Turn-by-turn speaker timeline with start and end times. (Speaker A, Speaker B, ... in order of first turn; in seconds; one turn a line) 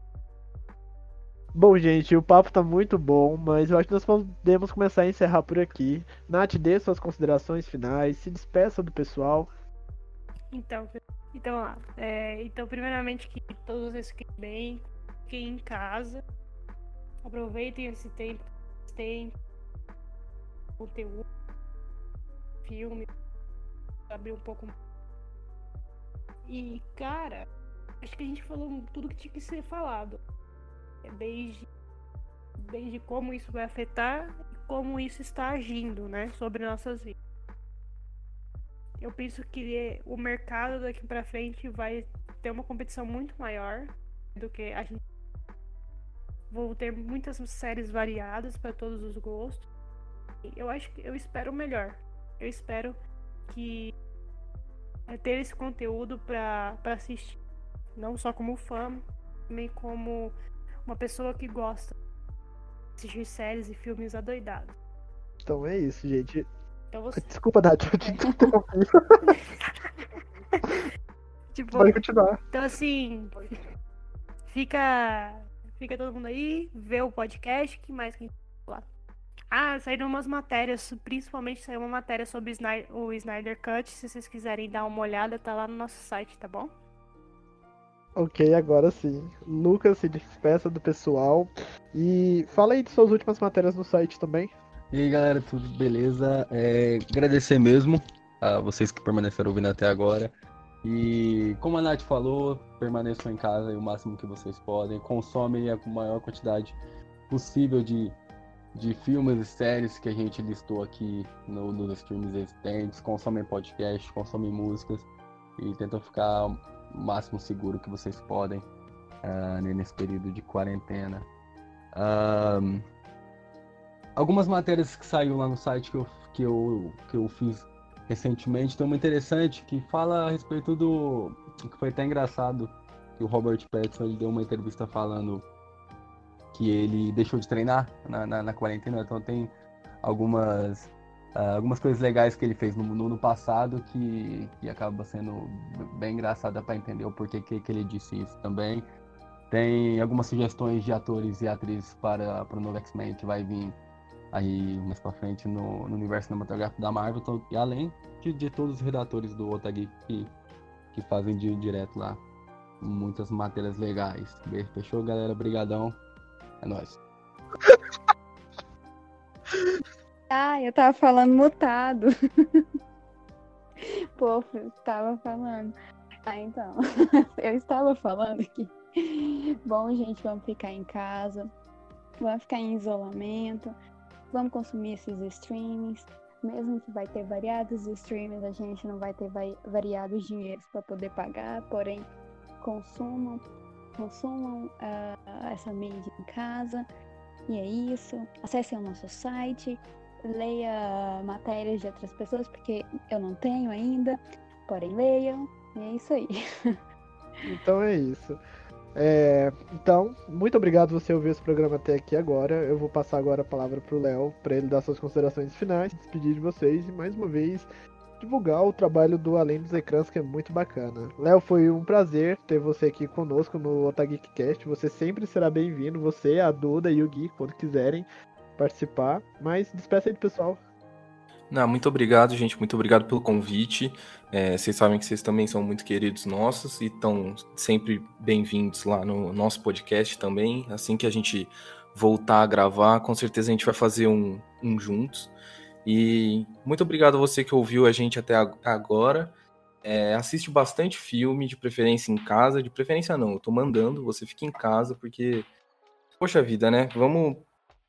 Speaker A: 1.5-9.5
Speaker B: 10.5-16.2
Speaker B: 17.2-19.3
Speaker B: 20.8-21.3
Speaker B: 22.6-23.1
Speaker B: 24.1-24.8
Speaker B: 26.5-27.5
Speaker B: 28.0-30.2
Speaker B: 31.0-31.7
Speaker B: 32.6-37.2
Speaker B: 39.0-45.0
Speaker B: 46.5-49.7
Speaker B: 50.5-53.9
Speaker B: 55.1-57.4
Speaker B: 58.0-60.4
Speaker B: 60.9-62.0
Speaker B: 63.0-64.8
Speaker A: 65.4-66.5
Speaker B: 66.9-67.3
Speaker A: 67.2-69.3
Speaker B: 69.3-69.7
Speaker B: 70.5-70.8
Speaker B: 71.5-72.0
Speaker A: 71.7-72.4
Speaker B: 72.5-73.6
Speaker B: 74.5-78.9
Speaker B: 79.5-86.7
Speaker A: 88.2-94.5
Speaker C: 94.9-100.3
Speaker C: 100.8-106.8
Speaker C: 107.3-108.2
Speaker C: 108.7-118.7
Speaker C: 119.2-121.3
Speaker C: 121.9-122.9
Speaker C: 124.2-135.5
Speaker C: 136.5-139.5
Speaker C: 140.0-148.9
Speaker C: 149.5-153.8
Speaker C: 154.3-160.3
Speaker C: 160.9-162.2
Speaker C: 162.8-166.0
Speaker C: 166.6-167.0
Speaker A: 167.6-167.9
Speaker A: 169.5-169.8
Speaker D: 170.3-172.6
Speaker D: 173.8-175.8
Speaker D: 176.3-176.8
Speaker D: 177.4-181.5
Speaker D: 182.2-183.8
Speaker D: 184.3-192.1
Speaker D: 192.6-193.4
Speaker D: 194.0-196.9
Speaker D: 197.5-206.8
Speaker A: 207.5-208.4
Speaker A: 208.9-217.7
Speaker A: 218.2-230.6
Speaker E: 231.5-245.3
Speaker E: 245.8-255.5
Speaker E: 256.2-257.5